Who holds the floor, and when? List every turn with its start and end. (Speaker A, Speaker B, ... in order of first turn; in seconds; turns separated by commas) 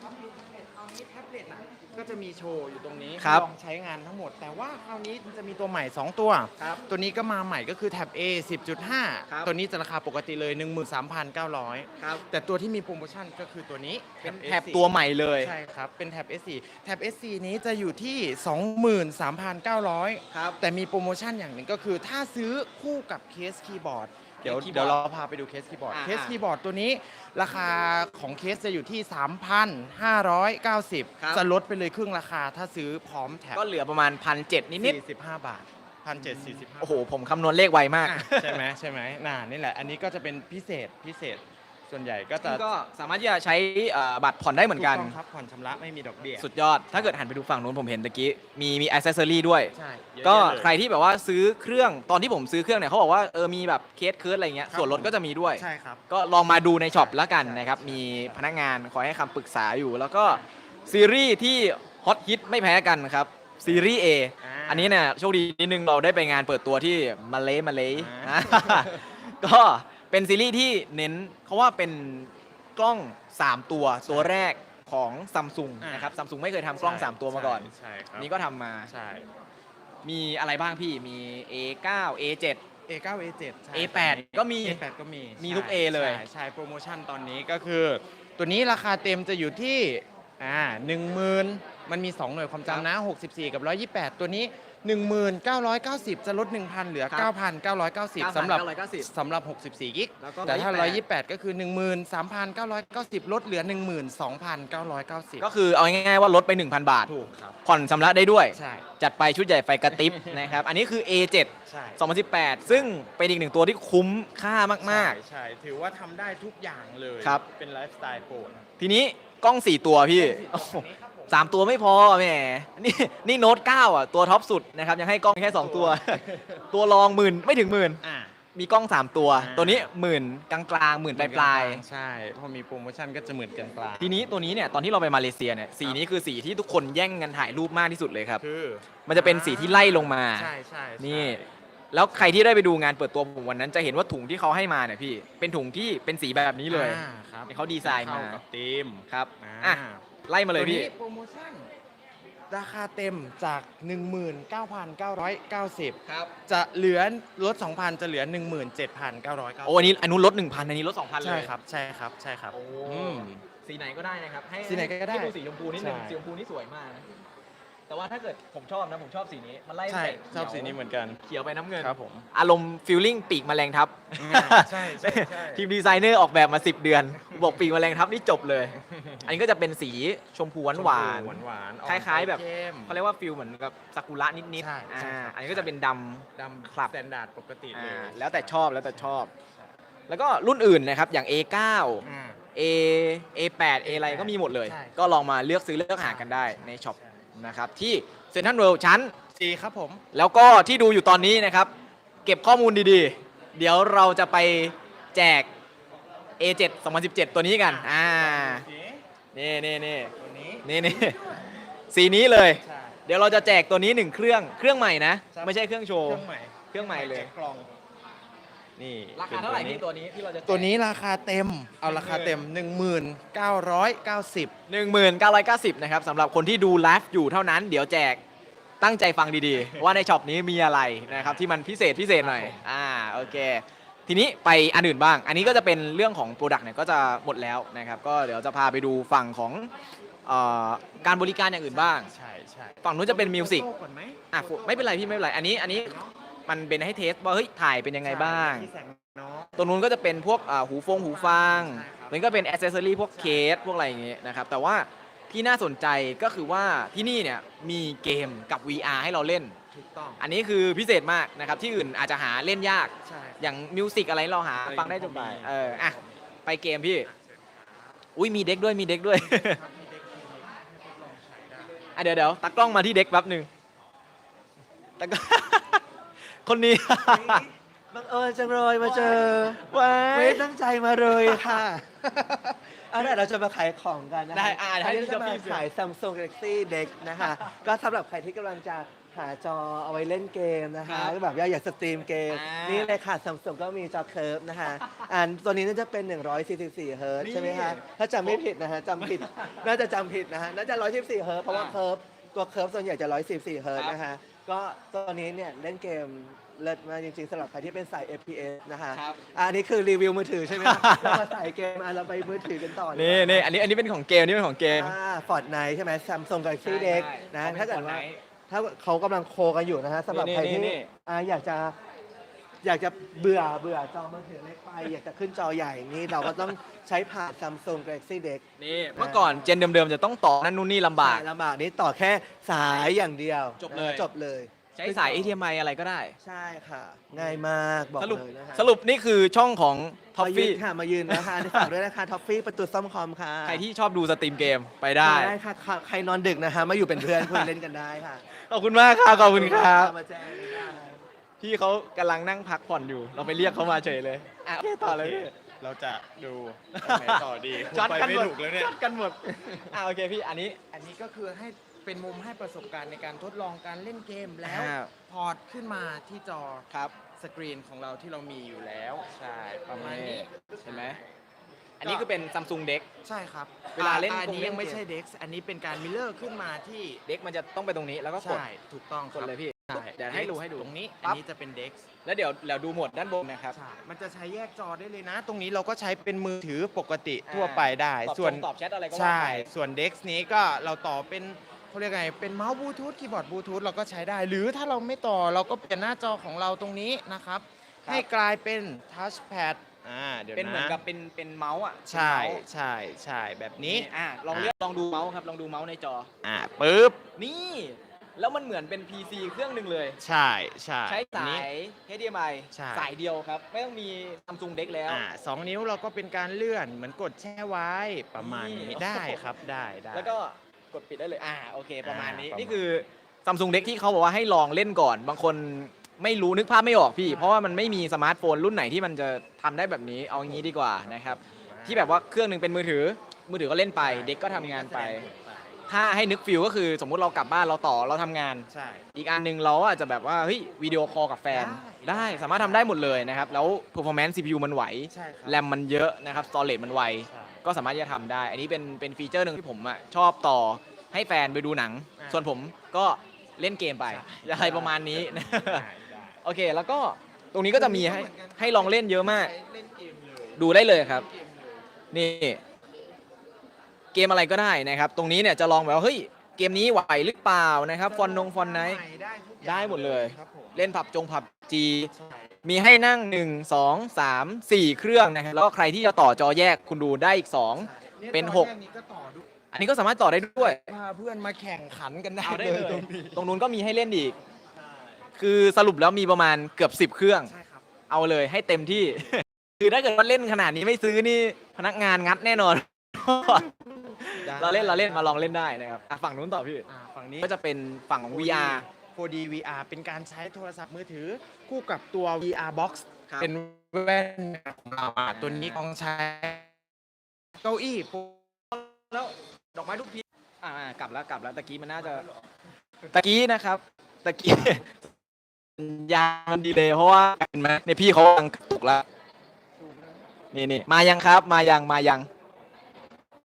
Speaker A: 0.3-33.6, Speaker B: 3.2-3.5, Speaker B: 12.0-12.2, Speaker B: 14.2-15.5, Speaker B: 20.3-20.6, Speaker B: 24.4-25.0, Speaker B: 25.9-26.4, Speaker B: 31.2-31.4, Speaker B: 33.5-35.0, Speaker A: 34.8-37.0, Speaker B: 36.2-38.6, Speaker A: 38.0-42.6, Speaker B: 42.4-45.1, Speaker A: 44.7-47.1, Speaker B: 46.4-78.9, Speaker A: 49.7-50.7, Speaker A: 54.7-56.0, Speaker A: 56.9-58.4, Speaker A: 64.4-65.0, Speaker A: 67.9-69.0, Speaker A: 74.0-74.3, Speaker A: 75.8-76.1, Speaker A: 76.8-78.3, Speaker A: 78.9-79.3, Speaker B: 80.0-82.6, Speaker A: 82.9-105.5, Speaker B: 83.7-84.8, Speaker B: 85.4-86.2, Speaker B: 98.2-99.1, Speaker B: 100.2-101.0, Speaker B: 105.4-107.1, Speaker A: 107.1-107.6, Speaker B: 107.6-115.2, Speaker A: 108.5-108.9, Speaker A: 110.0-110.5, Speaker A: 111.7-112.0, Speaker A: 112.6-113.0, Speaker A: 114.8-118.7, Speaker B: 118.8-128.0, Speaker A: 120.1-121.6, Speaker A: 125.4-126.6, Speaker A: 128.0-128.3, Speaker B: 128.5-131.8, Speaker A: 129.3-129.9, Speaker A: 131.2-134.2, Speaker B: 134.0-138.4, Speaker A: 138.4-141.4, Speaker B: 139.1-148.4, Speaker A: 146.7-151.7, Speaker B: 149.1-150.9, Speaker A: 152.5-159.8, Speaker B: 156.1-156.3, Speaker B: 159.6-161.5, Speaker A: 161.2-163.3, Speaker B: 162.5-167.0, Speaker A: 164.6-166.2, Speaker B: 167.9-186.9, Speaker A: 169.9-171.2, Speaker A: 171.8-172.2, Speaker A: 174.1-175.7, Speaker A: 178.9-179.3, Speaker A: 180.7-183.0, Speaker A: 184.6-185.7, Speaker A: 186.4-189.7, Speaker B: 187.7-189.3, Speaker B: 190.1-199.1, Speaker A: 192.0-192.4, Speaker A: 193.8-195.0, Speaker A: 196.0-197.2, Speaker A: 199.3-200.0, Speaker B: 200.1-201.7, Speaker B: 202.2-205.5, Speaker B: 206.4-208.6, Speaker A: 207.6-209.0, Speaker B: 209.3-210.1, Speaker A: 210.2-211.5, Speaker B: 210.6-211.2, Speaker B: 211.9-217.3, Speaker A: 212.6-213.0, Speaker A: 215.3-217.7, Speaker A: 218.8-219.8, Speaker B: 219.1-220.7, Speaker A: 220.5-224.5, Speaker B: 221.8-222.4, Speaker B: 224.7-228.2, Speaker B: 228.8-239.7, Speaker A: 231.1-231.5, Speaker A: 232.2-232.6, Speaker B: 240.2-242.1, Speaker A: 241.2-246.1, Speaker B: 242.8-243.7, Speaker B: 244.3-248.7, Speaker A: 248.0-249.6, Speaker B: 249.6-259.6, Speaker A: 250.9-252.2, Speaker A: 253.1-253.5, Speaker A: 259.7-260.2, Speaker B: 260.2-267.1, Speaker A: 263.0-263.6, Speaker A: 264.6-266.2, Speaker A: 267.0-267.9, Speaker B: 268.1-269.6, Speaker A: 269.1-271.8, Speaker B: 271.9-273.5, Speaker B: 275.0-275.8, Speaker B: 276.4-277.4, Speaker C: 276.9-313.5, Speaker B: 278.8-280.4, Speaker B: 281.1-281.4, Speaker B: 284.3-285.6, Speaker B: 290.8-291.1, Speaker B: 292.3-292.9, Speaker B: 297.2-298.4, Speaker B: 299.0-299.6, Speaker B: 301.5-301.8, Speaker B: 308.9-309.2, Speaker B: 310.6-311.2, Speaker B: 312.9-314.9, Speaker C: 314.7-321.7, Speaker B: 316.6-318.2, Speaker B: 320.1-320.9, Speaker C: 322.6-328.4, Speaker B: 328.6-331.2, Speaker C: 328.9-329.5, Speaker C: 331.0-335.3, Speaker B: 333.6-334.1, Speaker B: 334.8-336.1, Speaker C: 336.2-338.7, Speaker B: 338.0-341.7, Speaker C: 340.2-343.6, Speaker B: 343.4-345.3, Speaker C: 345.0-348.3, Speaker B: 347.0-347.5, Speaker B: 348.4-349.9, Speaker C: 349.1-351.0, Speaker B: 351.4-355.3, Speaker A: 354.8-359.7, Speaker B: 356.7-360.6, Speaker A: 360.7-371.0, Speaker B: 364.4-364.9, Speaker B: 369.7-371.0, Speaker B: 371.8-372.9, Speaker A: 371.8-372.1, Speaker A: 373.0-377.0, Speaker B: 373.7-374.8, Speaker B: 377.1-378.4, Speaker A: 378.2-381.9, Speaker B: 379.1-381.2, Speaker B: 382.0-383.6, Speaker A: 383.5-400.8, Speaker B: 387.3-389.5, Speaker B: 400.3-402.4, Speaker A: 401.9-404.5, Speaker B: 403.6-406.1, Speaker A: 406.2-407.0, Speaker B: 407.2-410.0, Speaker A: 410.0-411.5, Speaker B: 410.9-415.0, Speaker A: 412.5-412.9, Speaker A: 414.9-420.1, Speaker B: 418.2-419.3, Speaker B: 419.9-435.1, Speaker A: 421.8-422.6, Speaker A: 427.0-428.1, Speaker A: 430.1-432.0, Speaker A: 433.8-435.6, Speaker B: 435.7-455.6, Speaker A: 438.5-438.8, Speaker A: 441.3-443.3, Speaker A: 444.9-445.4, Speaker A: 447.1-447.4, Speaker A: 452.0-452.3, Speaker A: 453.9-456.2, Speaker B: 456.2-459.3, Speaker A: 457.5-461.6, Speaker B: 460.4-461.0, Speaker B: 461.9-462.4, Speaker B: 463.9-468.8, Speaker A: 467.8-470.7, Speaker B: 469.4-471.9, Speaker A: 471.9-472.4, Speaker B: 472.4-478.5, Speaker A: 477.6-479.3, Speaker B: 479.5-480.6, Speaker A: 480.3-483.3, Speaker B: 482.2-484.1, Speaker A: 484.5-485.0, Speaker B: 485.2-487.3, Speaker A: 487.2-487.6, Speaker B: 487.9-496.7, Speaker A: 493.5-495.4, Speaker A: 496.7-497.3, Speaker B: 497.2-498.6, Speaker A: 498.0-506.5, Speaker B: 505.1-505.6, Speaker A: 507.4-508.2, Speaker B: 508.5-512.1, Speaker A: 511.8-512.3, Speaker B: 512.9-514.8, Speaker B: 515.6-518.8, Speaker A: 519.6-520.0, Speaker B: 520.3-522.1